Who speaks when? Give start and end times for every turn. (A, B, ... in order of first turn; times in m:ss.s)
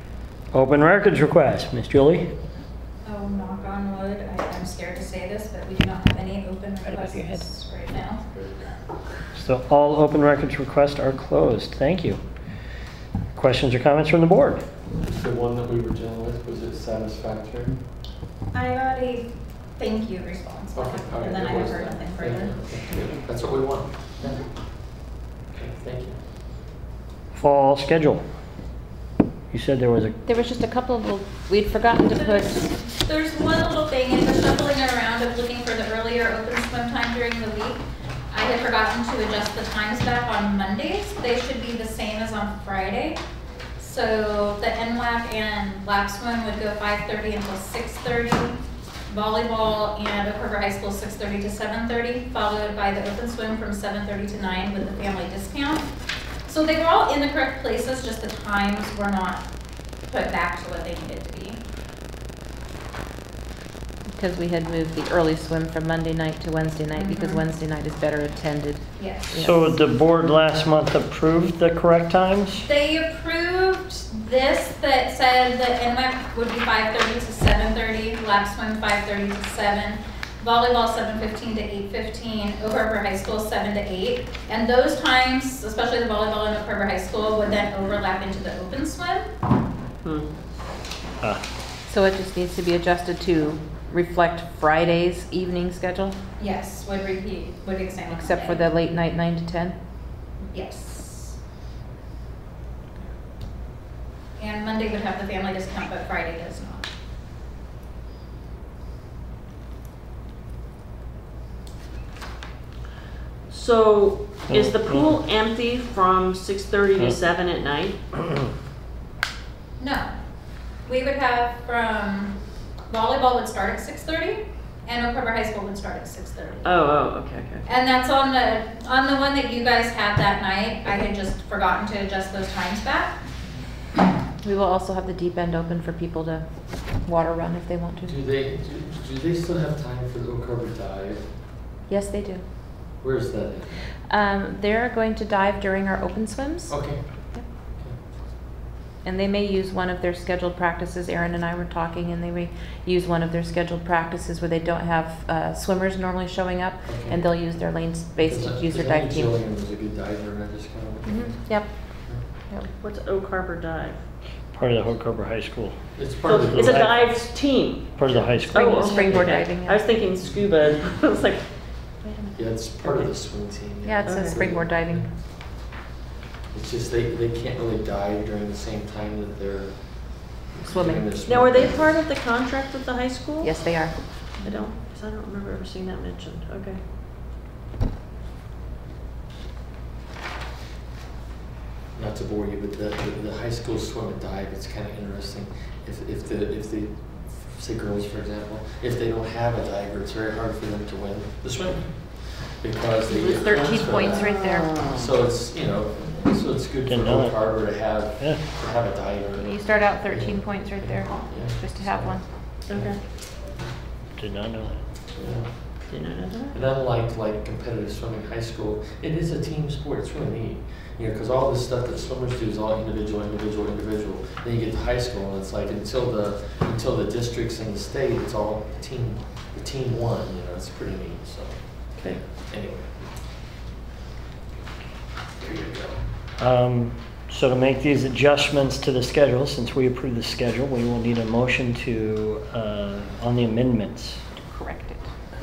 0:00.5-0:02.3 A
0:03.0-0:08.2 B
0:06.9-0:07.3 C
0:09.3-0:12.2 A
0:13.3-0:14.6 A
0:15.0-0:17.8 D
0:18.5-0:22.5 B
0:20.7-0:24.4 D
0:25.6-0:26.2 D
0:27.3-0:28.2 A
0:29.5-0:30.1 A
0:30.2-0:32.7 C
0:32.0-0:43.2 B
0:43.8-0:55.9 B
0:56.5-0:59.5 B
1:00.1-1:01.6 B
1:04.1-1:09.8 C
1:06.9-1:07.4 B
1:09.0-1:09.4 B
1:09.3-1:12.6 A
1:12.7-1:29.2 B
1:30.0-1:30.3 E
1:31.9-1:36.2 C
1:36.4-1:38.7 B
1:38.1-1:39.8 C
1:40.5-1:41.4 B
1:44.4-1:46.8 B
1:53.5-1:58.0 E
1:54.5-1:55.0 A
1:59.8-2:00.1 B
2:00.8-2:02.3 B
2:02.9-2:06.8 B
2:06.6-2:07.7 E
2:07.6-2:13.2 B
2:14.4-2:16.4 C
2:17.0-2:18.2 C
2:18.0-2:21.2 D
2:21.9-2:22.4 C
2:23.0-2:23.8 D
2:24.1-2:26.8 C
2:26.7-2:27.0 D
2:29.0-2:39.3 C
2:36.9-2:37.2 D
2:38.2-2:41.5 D
2:41.0-2:41.7 C
2:42.8-2:44.0 E
2:44.5-2:45.8 A
2:46.0-2:46.9 D
2:46.2-2:51.4 E
2:46.5-2:47.0 A
2:48.0-2:49.3 A
2:48.4-2:49.8 C
2:52.3-2:55.1 D
2:53.8-2:55.1 C
2:54.0-2:54.3 E
2:56.5-3:02.0 D
3:00.6-3:01.1 C
3:01.3-3:03.5 E
3:03.4-3:04.6 C
3:04.4-3:06.8 E
3:11.9-3:33.0 D
3:23.1-3:24.8 C
3:23.7-3:25.0 E
3:26.8-3:27.4 A
3:28.2-3:28.4 A
3:29.4-3:32.2 C
3:32.7-3:33.0 E
3:34.2-3:34.8 A
3:35.2-3:35.5 D
3:35.9-3:36.6 E
3:36.5-3:52.9 D
3:55.4-3:56.0 D
3:56.4-4:04.2 A
4:04.5-4:05.0 C